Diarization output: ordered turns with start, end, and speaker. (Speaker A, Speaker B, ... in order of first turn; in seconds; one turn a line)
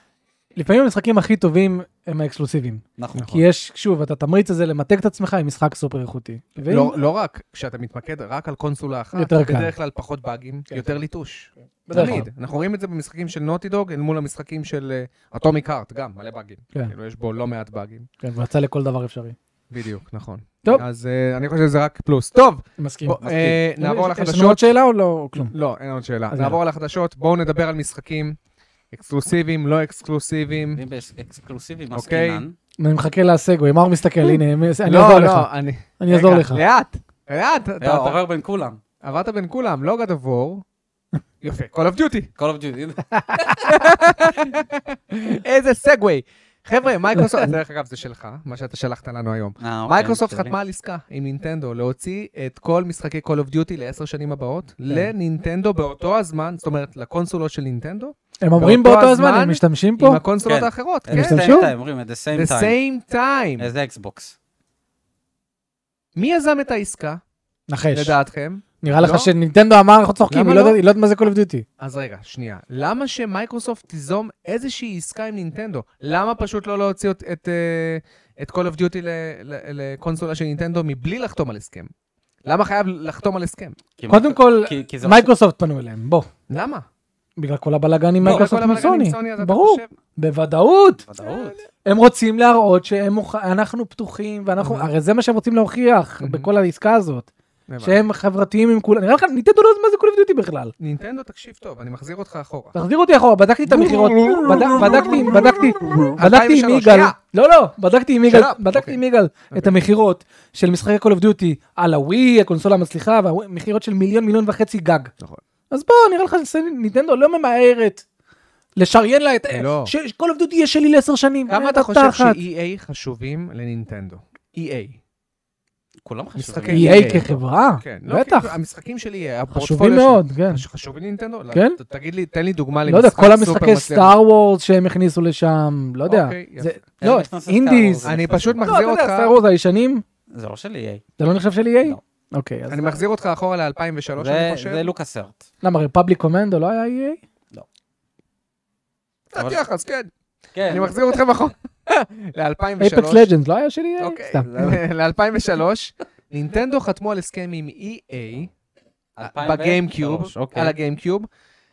Speaker A: 0.6-6.9
Speaker B: 3.0-3.4
Speaker C: 6.7-18.1
Speaker A: 9.1-9.7
Speaker A: 11.9-12.3
Speaker A: 18.2-19.3
Speaker C: 19.7-24.7
Speaker A: 22.8-23.2
Speaker B: 23.2-23.6
Speaker A: 23.8-25.5
Speaker C: 25.4-28.4
Speaker A: 26.3-26.6
Speaker C: 28.9-30.8
Speaker B: 30.7-32.5
Speaker C: 31.9-32.4
Speaker A: 32.8-35.5
Speaker C: 34.9-38.2
Speaker A: 36.0-36.6
Speaker B: 37.8-38.8
Speaker C: 39.0-40.6
Speaker C: 41.4-42.3
Speaker B: 42.4-43.8
Speaker A: 43.3-43.5
Speaker C: 43.6-61.7
Speaker B: 49.6-50.5
Speaker A: 58.4-60.2
Speaker B: 60.4-62.7
Speaker A: 61.1-61.7
Speaker C: 62.3-63.7
Speaker B: 63.6-64.3
Speaker C: 66.1-67.2
Speaker A: 67.7-68.2
Speaker C: 67.9-69.3
Speaker A: 68.8-71.6
Speaker C: 70.3-70.8
Speaker C: 71.8-81.9
Speaker C: 82.4-83.8
Speaker B: 84.0-85.3
Speaker A: 84.1-86.3
Speaker C: 86.5-86.8
Speaker A: 87.4-91.0
Speaker C: 88.2-89.9
Speaker B: 91.0-91.6
Speaker C: 91.2-91.6
Speaker A: 91.8-97.3
Speaker C: 94.6-94.9
Speaker C: 96.2-96.5
Speaker C: 97.7-98.0
Speaker A: 97.8-100.7
Speaker C: 100.8-102.7
Speaker A: 102.7-115.1
Speaker C: 103.7-107.2
Speaker C: 108.3-109.0
Speaker A: 115.7-118.0
Speaker A: 118.8-122.4
Speaker C: 119.5-119.9
Speaker C: 121.5-125.0
Speaker B: 126.0-127.3
Speaker C: 126.3-134.2
Speaker A: 126.7-128.5
Speaker A: 129.5-130.6
Speaker A: 131.5-131.8
Speaker A: 132.9-140.0
Speaker C: 136.1-136.8
Speaker B: 137.0-138.6
Speaker C: 138.0-139.3
Speaker B: 140.3-141.0
Speaker A: 141.2-143.0
Speaker C: 142.7-144.9
Speaker B: 144.2-145.4
Speaker A: 145.6-147.2
Speaker C: 149.3-150.1
Speaker B: 149.3-149.6
Speaker B: 150.5-151.0
Speaker C: 150.7-153.3
Speaker A: 152.8-154.8
Speaker C: 154.0-158.5
Speaker B: 159.2-160.7
Speaker C: 159.2-161.3